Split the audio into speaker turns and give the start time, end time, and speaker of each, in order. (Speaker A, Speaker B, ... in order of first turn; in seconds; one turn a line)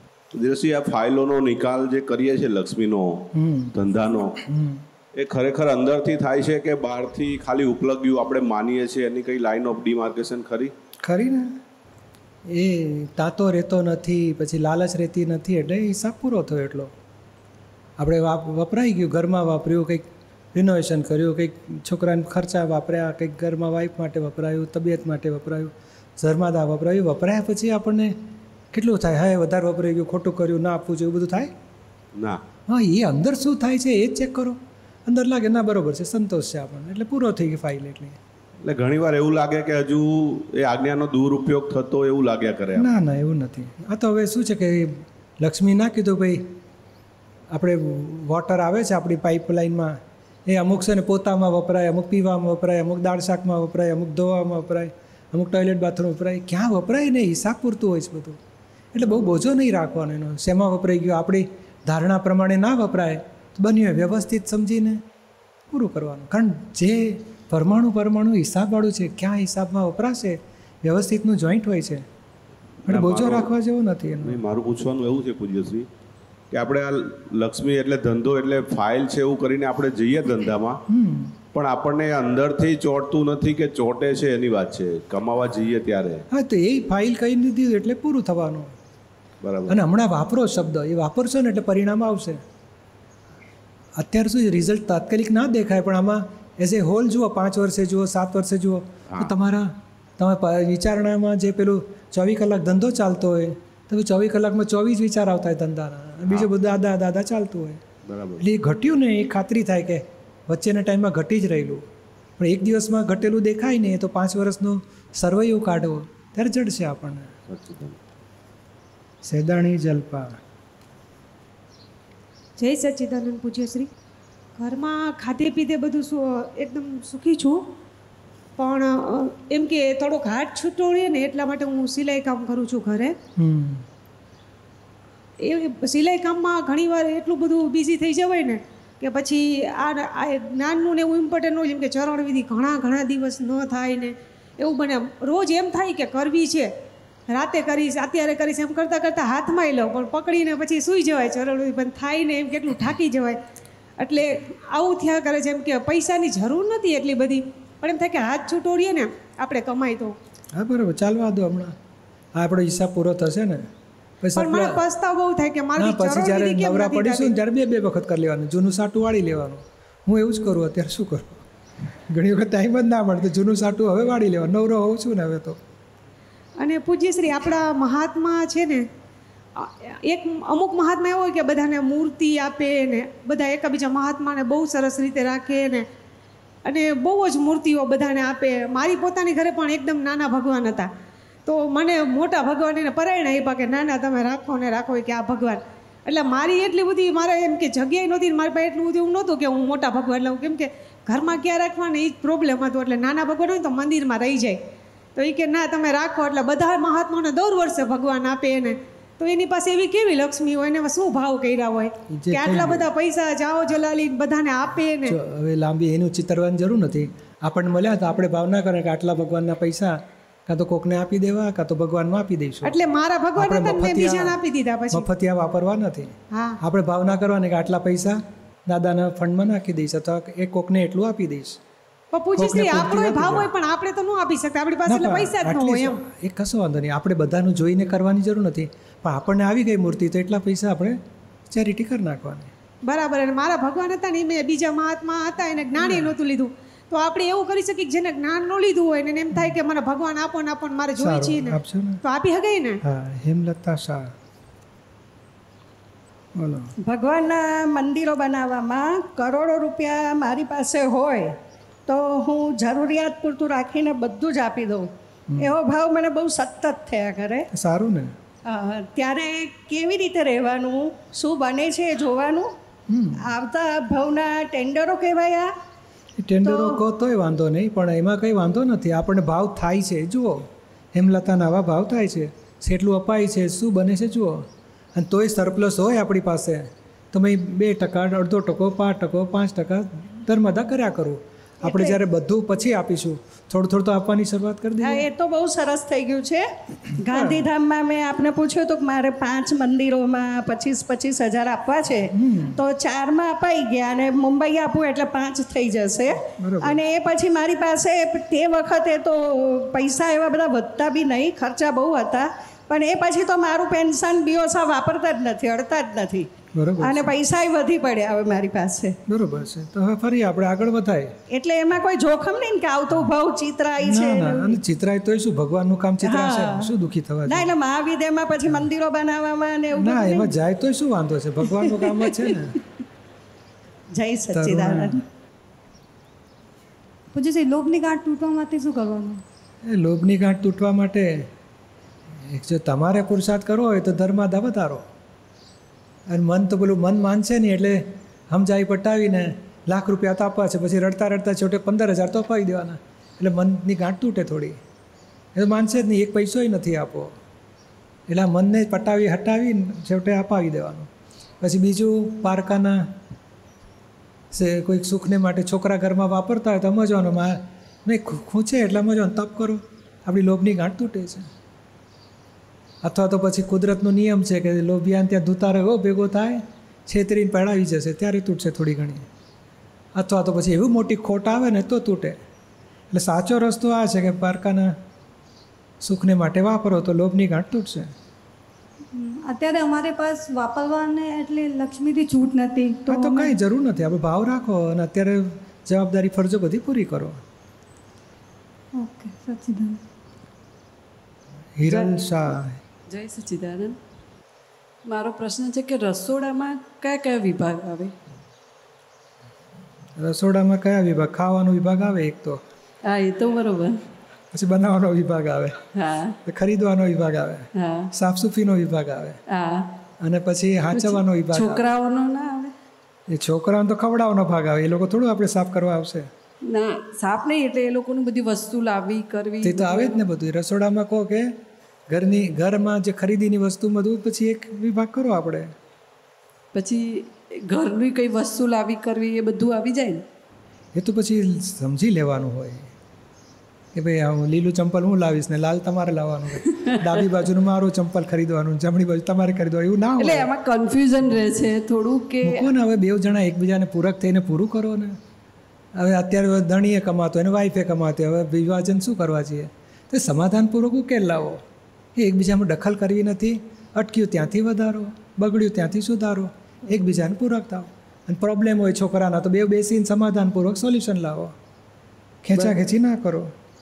Speaker A: 0.3-4.4
Speaker B: 3.3-3.7
Speaker B: 4.5-4.8
Speaker A: 5.1-10.7
Speaker B: 11.0-11.6
Speaker B: 12.4-16.9
Speaker B: 18.0-28.2
Speaker B: 28.7-31.5
Speaker A: 32.1-32.4
Speaker B: 32.7-38.2
Speaker A: 38.6-42.9
Speaker B: 42.8-46.6
Speaker B: 47.5-58.4
Speaker B: 58.9-65.0
Speaker B: 65.7-72.0
Speaker A: 72.8-73.5
Speaker B: 72.9-74.4
Speaker A: 74.2-75.8
Speaker A: 76.5-80.8
Speaker B: 80.9-81.3
Speaker A: 81.5-86.2
Speaker B: 86.3-88.7
Speaker A: 89.4-89.8
Speaker B: 89.7-92.4
Speaker B: 94.0-107.8
Speaker A: 108.0-108.4
Speaker B: 108.4-111.8
Speaker B: 112.4-117.3
Speaker A: 117.5-118.0
Speaker B: 119.2-120.4
Speaker C: 122.6-123.9
Speaker C: 124.5-127.7
Speaker C: 128.6-133.1
Speaker B: 133.4-133.8
Speaker C: 135.4-146.7
Speaker C: 147.3-153.4
Speaker C: 154.0-160.2
Speaker B: 160.5-161.8
Speaker B: 162.3-163.6
Speaker B: 164.2-164.8
Speaker C: 164.4-167.3
Speaker B: 165.8-171.4
Speaker B: 172.1-175.6
Speaker C: 176.6-178.9
Speaker C: 179.6-185.8
Speaker C: 186.6-190.9
Speaker C: 191.4-204.6
Speaker C: 205.2-215.2
Speaker B: 212.1-212.8
Speaker B: 215.0-222.8
Speaker C: 222.6-225.1
Speaker B: 223.3-224.4
Speaker B: 224.9-231.6
Speaker C: 226.3-226.6
Speaker C: 232.1-236.0
Speaker B: 232.4-233.5
Speaker B: 234.8-242.5
Speaker C: 242.8-252.8
Speaker B: 245.8-246.1
Speaker B: 249.3-249.6
Speaker B: 251.0-252.0
Speaker B: 252.8-254.1
Speaker B: 256.4-256.7
Speaker D: 256.8-261.3
Speaker D: 261.9-267.5
Speaker B: 265.3-265.5
Speaker B: 267.5-268.1
Speaker D: 268.4-272.5
Speaker B: 272.9-273.3
Speaker D: 273.2-275.5
Speaker B: 276.2-295.1
Speaker D: 276.4-276.8
Speaker D: 291.6-292.0
Speaker D: 294.8-319.0
Speaker B: 297.1-297.5
Speaker B: 302.1-302.6
Speaker B: 306.4-306.8
Speaker B: 316.5-317.1
Speaker B: 319.1-321.1
Speaker D: 321.3-324.6
Speaker B: 323.8-327.5
Speaker D: 326.0-326.7
Speaker D: 327.3-330.3
Speaker B: 329.7-332.6
Speaker D: 334.0-335.0
Speaker B: 334.3-335.0
Speaker E: 337.1-339.2
Speaker B: 339.6-341.3
Speaker B: 342.2-344.8
Speaker B: 346.1-354.6
Speaker B: 355.3-357.1
Speaker B: 358.1-360.9
Speaker B: 361.4-362.9
Speaker B: 364.3-371.3
Speaker B: 372.8-379.1
Speaker B: 379.9-382.2
Speaker B: 382.9-384.7
Speaker B: 385.8-387.9
Speaker E: 388.9-393.3
Speaker B: 392.9-397.2
Speaker E: 398.7-399.8
Speaker B: 401.6-402.6
Speaker F: 401.7-401.9
Speaker F: 402.9-403.8
Speaker F: 404.9-407.9
Speaker B: 410.0-412.4
Speaker F: 412.9-413.8
Speaker B: 414.3-415.6
Speaker F: 415.7-416.2
Speaker B: 416.2-419.2
Speaker F: 417.5-417.9
Speaker F: 419.3-419.7
Speaker B: 420.0-421.6
Speaker F: 420.7-422.5
Speaker B: 423.1-426.1
Speaker F: 426.5-430.0
Speaker B: 429.4-435.5
Speaker F: 436.5-440.0
Speaker B: 440.7-442.7
Speaker B: 443.7-450.3
Speaker F: 446.5-447.1
Speaker F: 450.0-452.5
Speaker B: 452.2-455.0
Speaker B: 455.8-461.4
Speaker B: 461.9-471.3
Speaker B: 472.2-473.3